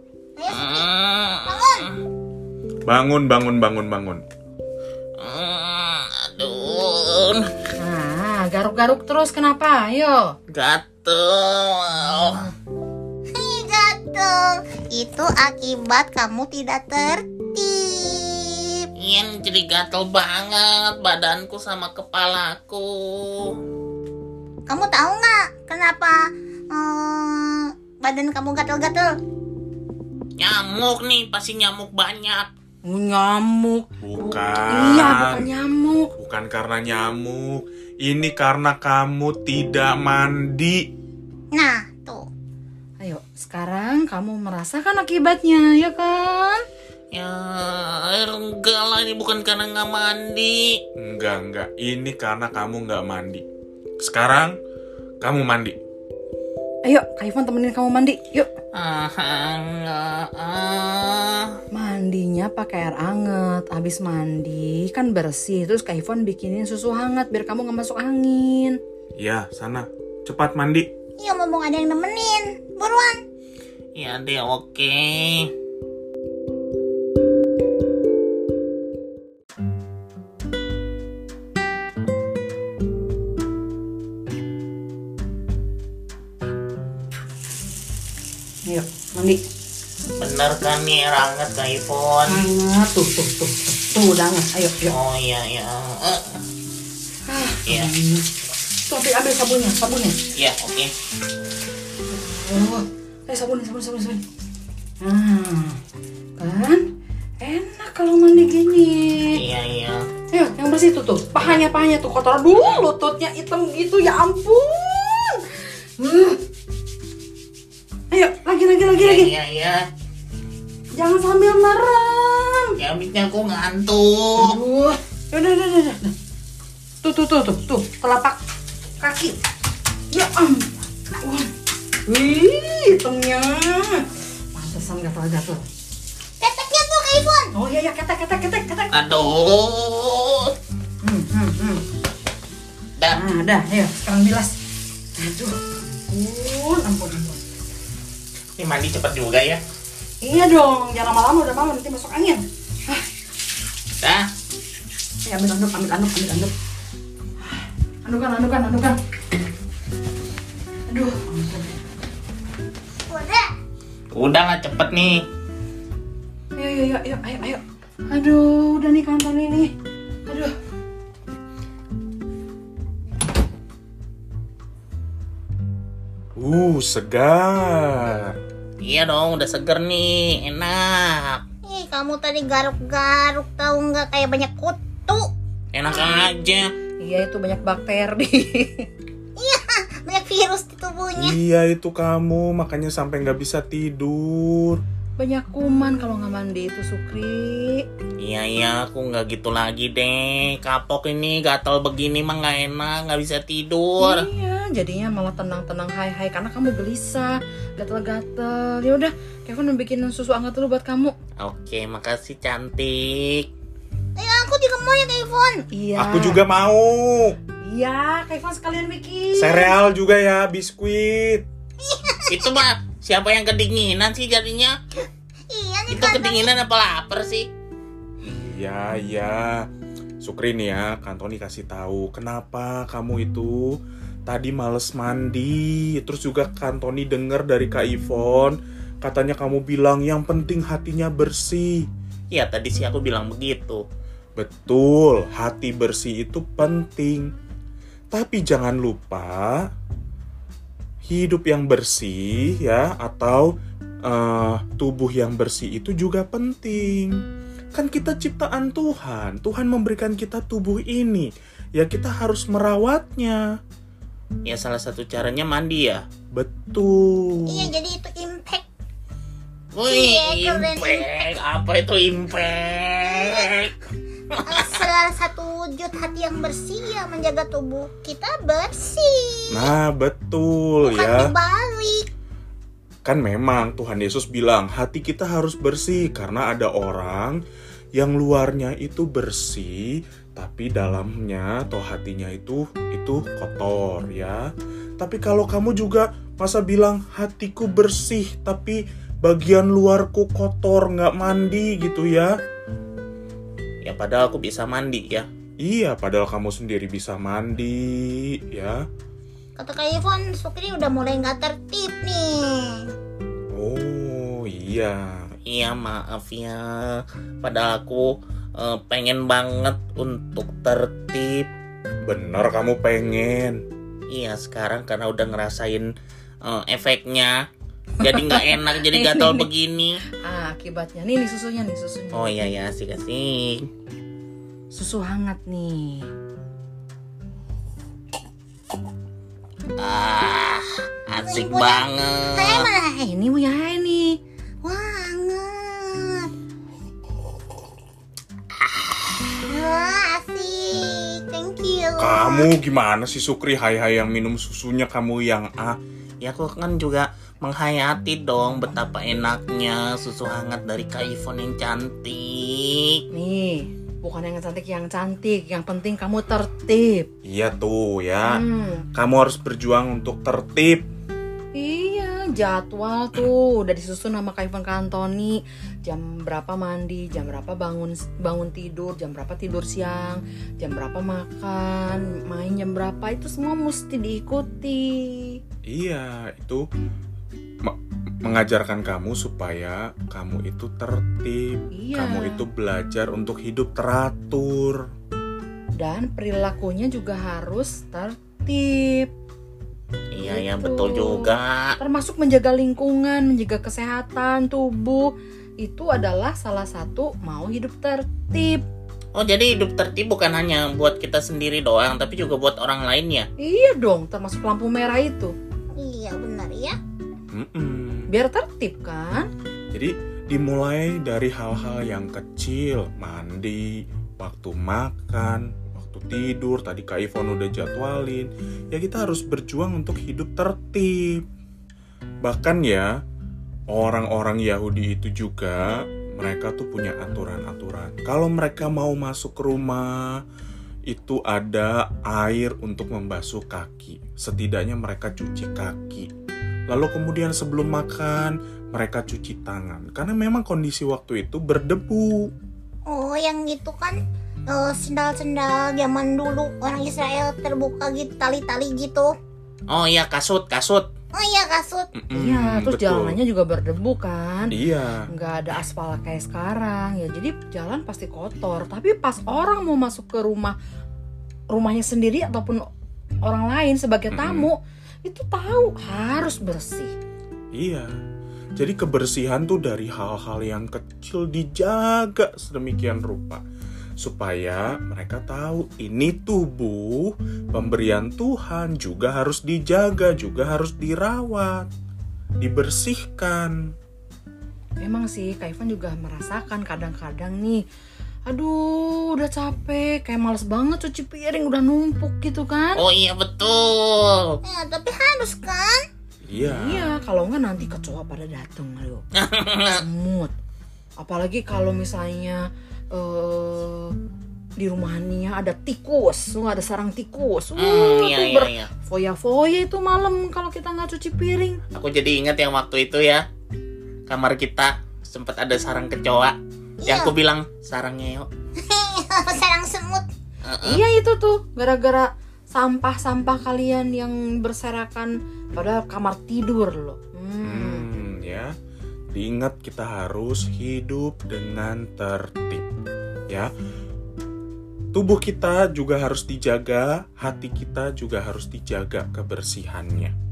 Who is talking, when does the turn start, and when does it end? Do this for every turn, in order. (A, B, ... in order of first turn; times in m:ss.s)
0:00.4-0:00.9 A
0:00.5-0:01.8 B
0:01.4-0:01.9 A
0:02.9-0:04.2 C
0:05.2-0:07.5 B
0:07.8-0:10.3 D
0:10.5-0:12.5 B
0:13.3-0:18.9 A
0:19.0-0:23.5 B
0:24.7-0:26.2 A
0:26.7-0:29.1 A
0:30.4-0:32.5 B
0:32.8-0:36.1 D
0:34.0-0:35.5 C
0:36.2-0:40.9 C
0:41.5-0:42.3 A
0:43.0-0:46.6 D
0:47.1-0:50.7 B
0:51.0-0:53.4 C
0:54.0-0:54.6 C
0:55.2-0:55.8 C
0:56.8-0:58.5 D
0:58.7-1:01.6 B
1:01.7-1:08.8 D
1:09.2-1:10.9 C
1:11.2-1:13.2 A
1:14.0-1:15.5 B
1:28.7-1:29.4 D
1:30.2-1:32.4 B
1:32.3-1:35.0 D
1:34.9-1:36.4 B
1:37.3-1:38.3 D
1:37.7-1:37.9 B
1:38.9-1:40.2 D
1:40.4-1:40.9 B
1:42.1-1:44.2 D
1:45.0-1:45.8 D
1:46.4-1:46.8 D
1:47.4-1:49.4 D
1:49.3-1:50.1 B
1:50.3-1:56.4 D
1:52.5-1:52.8 B
1:58.1-1:59.3 D
1:59.0-1:59.8 B
2:00.9-2:02.8 D
2:02.8-2:04.6 B
2:04.4-2:06.2 D
2:07.0-2:08.4 D
2:09.0-2:09.4 D
2:10.1-2:11.5 D
2:12.1-2:15.6 D
2:16.4-2:17.5 A
2:17.5-2:18.9 D
2:18.9-2:20.5 B
2:21.0-2:21.8 D
2:23.1-2:24.6 D
2:25.2-2:27.4 D
2:28.6-2:29.6 B
2:30.2-2:33.0 D
2:34.0-2:34.3 B
2:35.2-2:36.5 D
2:37.4-2:39.0 D
2:40.9-2:41.8 D
2:43.1-2:43.5 A
2:44.1-2:45.3 B
2:46.6-2:49.7 D
2:50.3-2:50.5 D
2:56.4-2:58.4 C
2:58.8-3:01.4 B
3:01.7-3:05.2 A
3:05.7-3:06.7 B
3:07.0-3:08.9 D
3:09.4-3:11.4 A
3:11.2-3:14.8 C
3:15.2-3:17.8 D
3:18.2-3:24.2 B
3:24.0-3:31.2 D
3:31.4-3:33.5 B
3:34.2-3:35.7 A
3:35.7-3:36.4 D
3:36.0-3:37.4 C
3:37.6-3:39.8 D
3:39.4-3:41.4 C
3:41.8-3:42.6 A
3:42.3-3:44.8 B
3:45.5-3:46.5 A
3:45.9-3:47.5 B
3:48.2-3:49.7 C
3:50.2-4:01.9 C
4:02.3-4:03.8 B
4:04.4-4:07.3 C
4:08.1-4:09.7 C
4:11.1-4:17.2 C
4:17.7-4:23.4 C
4:24.5-4:26.0 B
4:26.3-4:27.7 C
4:27.5-4:28.6 A
4:29.7-4:33.7 B
4:29.9-4:31.2 A
4:34.3-4:34.9 B
4:34.5-4:39.7 A
4:39.5-4:41.4 C
4:40.8-4:42.1 A
4:43.0-4:47.4 C
4:48.0-4:54.5 C
4:55.0-5:02.4 C
5:03.8-5:05.3 B
5:05.6-5:08.8 C
5:09.6-5:12.8 A
5:13.5-5:15.3 C
5:15.5-5:21.5 B
5:22.0-5:23.6 C
5:24.1-5:25.9 B
5:26.4-5:27.4 B
5:28.0-5:30.0 B
5:28.0-5:29.5 D
5:30.2-5:32.3 D
5:32.1-5:33.7 B
5:34.7-5:36.1 D
5:39.8-5:42.6 B
5:41.2-5:43.0 A
5:43.0-5:44.2 D
5:44.6-5:46.3 A
5:49.3-5:52.5 A
5:52.0-5:55.8 C
5:56.2-6:03.0 B
6:03.1-6:07.1 D
6:07.2-6:08.4 C
6:08.3-6:08.9 D
6:09.0-6:10.8 C
6:11.6-6:25.4 D
6:25.7-6:26.6 C
6:27.6-6:34.8 C
6:31.7-6:32.4 D
6:35.8-6:39.1 D
6:40.1-6:41.8 B
6:40.2-6:48.6 D
6:49.2-6:53.3 B
6:53.4-6:55.3 D
6:55.8-6:56.8 A
6:57.3-6:58.1 C
6:58.1-6:59.3 D
6:59.7-7:11.2 C
7:12.2-7:13.0 C
7:13.7-7:20.2 C
7:20.9-7:26.1 C
7:26.7-7:32.3 C
7:32.9-7:34.0 A
7:34.5-7:39.1 A
7:39.7-7:40.9 B
7:41.1-7:41.9 A
7:42.0-7:43.2 C
7:42.1-7:44.6 D
7:44.5-7:45.0 C
7:45.1-7:50.6 D
7:51.5-7:52.7 D
7:53.2-7:56.9 D
7:54.1-7:54.5 C
7:57.5-7:57.9 C
7:58.6-8:03.4 C
8:04.0-8:11.7 C
8:12.4-8:13.6 C
8:14.8-8:17.6 D
8:18.3-8:22.8 D
8:22.8-8:24.4 B
8:24.4-8:25.8 A
8:26.3-8:27.0 C
8:26.4-8:29.0 D
8:29.2-8:29.8 B
8:29.7-8:30.3 D
8:31.0-8:34.0 D
8:34.6-8:41.6 D
8:37.6-8:38.7 B
8:41.7-8:43.2 B
8:44.1-8:48.3 B
8:46.8-8:47.1 A
8:48.6-8:50.0 A
8:50.4-8:50.8 B
8:50.6-8:57.9 D
8:57.4-8:58.5 C
8:59.1-9:02.7 C
9:04.9-9:10.1 C